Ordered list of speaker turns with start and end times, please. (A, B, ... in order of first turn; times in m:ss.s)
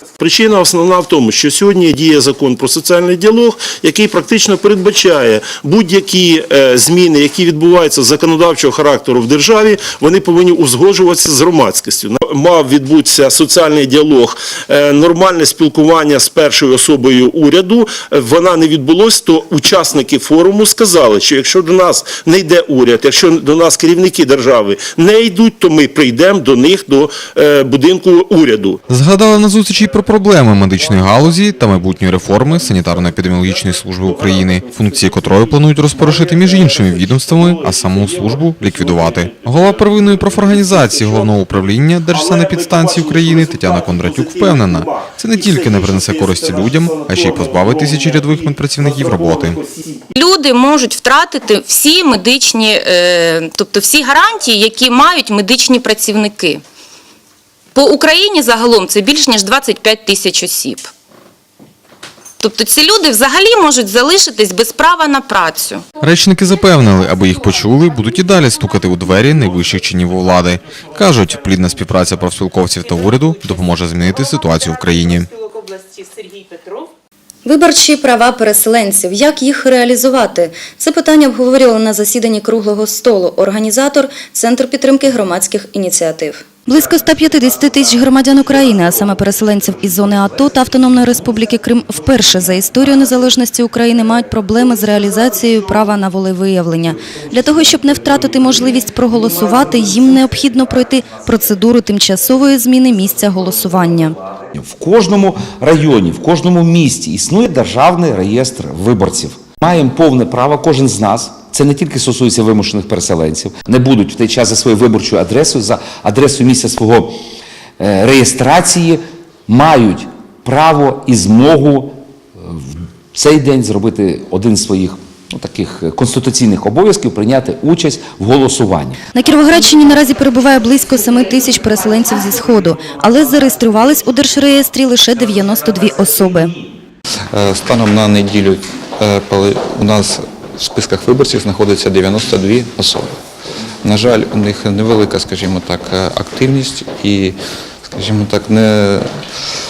0:00.2-0:28.8 A
0:28.9-0:49.6 B
0:33.5-0:50.0 A
0:50.2-0:56.6 C
0:57.7-1:00.8 C
1:02.4-1:05.8 C
1:06.0-1:15.3 B
1:17.4-1:44.2 D
1:44.5-1:57.2 E
1:57.8-2:09.0 E
2:09.1-2:16.5 D
2:17.3-2:23.2 F
2:23.8-2:27.4 F
2:27.9-2:29.0 F